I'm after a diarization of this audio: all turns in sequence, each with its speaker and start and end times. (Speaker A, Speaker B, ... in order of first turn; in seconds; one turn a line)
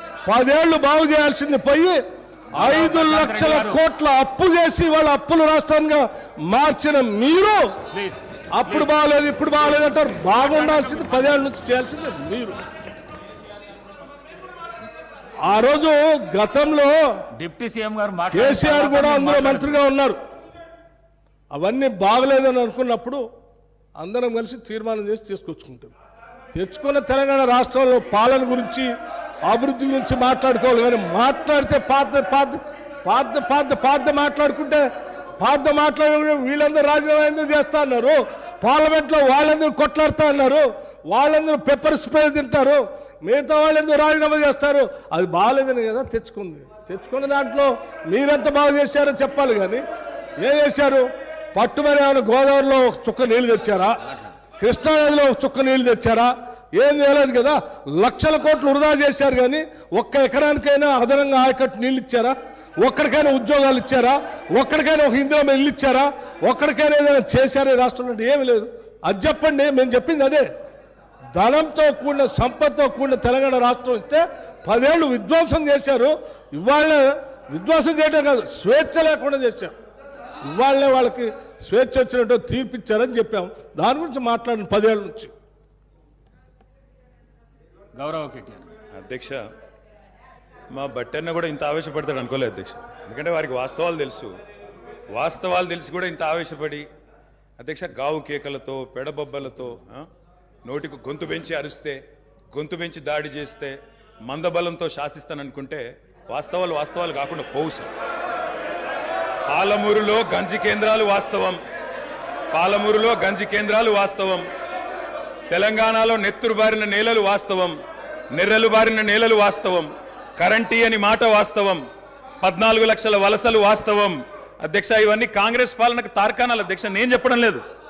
Speaker A: 0.2-2.0
Speaker A: 2.5-7.7
Speaker B: 2.5-3.8
Speaker B: 7.9-8.9
Speaker A: 8.5-12.6
Speaker B: 9.7-11.4
Speaker A: 15.4-17.0
Speaker B: 17.4-19.8
Speaker A: 18.3-20.2
Speaker A: 21.5-23.2
Speaker A: 24.0-25.9
Speaker A: 26.5-28.9
Speaker A: 29.4-34.9
Speaker A: 35.4-49.8
Speaker A: 50.4-54.0
Speaker A: 54.6-70.5
Speaker A: 71.3-79.7
Speaker A: 80.5-85.3
Speaker B: 87.9-88.7
Speaker C: 88.9-89.4
Speaker C: 90.7-94.3
Speaker C: 95.1-96.8
Speaker C: 97.6-100.0
Speaker C: 100.6-102.0
Speaker C: 102.5-107.9
Speaker C: 109.5-111.6
Speaker C: 112.5-114.4
Speaker C: 115.5-117.8
Speaker C: 118.3-121.8
Speaker C: 122.4-127.6